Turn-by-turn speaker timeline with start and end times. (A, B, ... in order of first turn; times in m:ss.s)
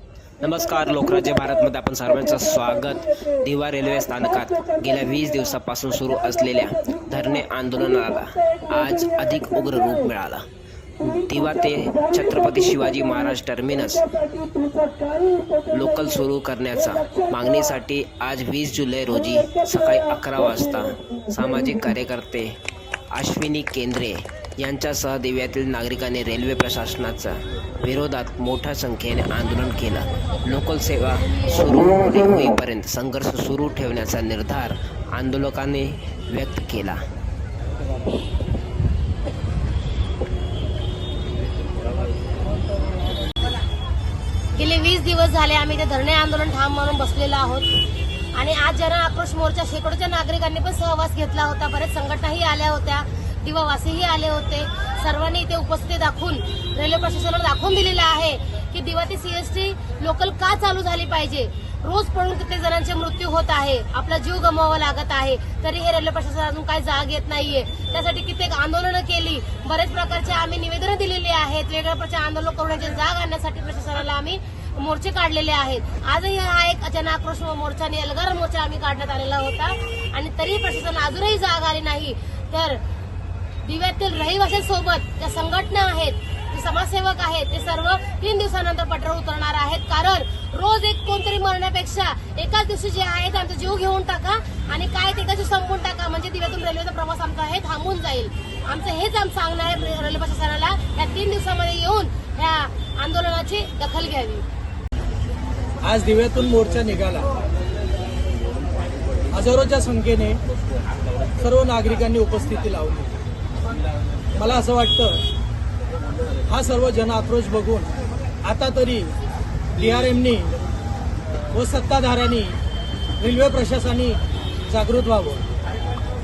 0:00.4-0:10.4 A
0:04.6-0:04.9 B
0:11.0-0:14.1 A
0:14.5-0:15.7 B
0:15.7-0:22.6 A
0:23.1-0:37.0 A
0:44.5-0:47.7 B
0:48.3-1:22.8 B
1:23.6-1:44.4 B
1:45.8-1:47.3 C
1:49.3-1:50.4 C
1:51.3-1:53.2 C
1:54.3-1:55.2 C
1:56.5-1:57.9 C
1:58.4-1:59.1 C
1:59.7-2:00.5 C
2:01.5-2:02.6 C
2:03.2-2:05.4 C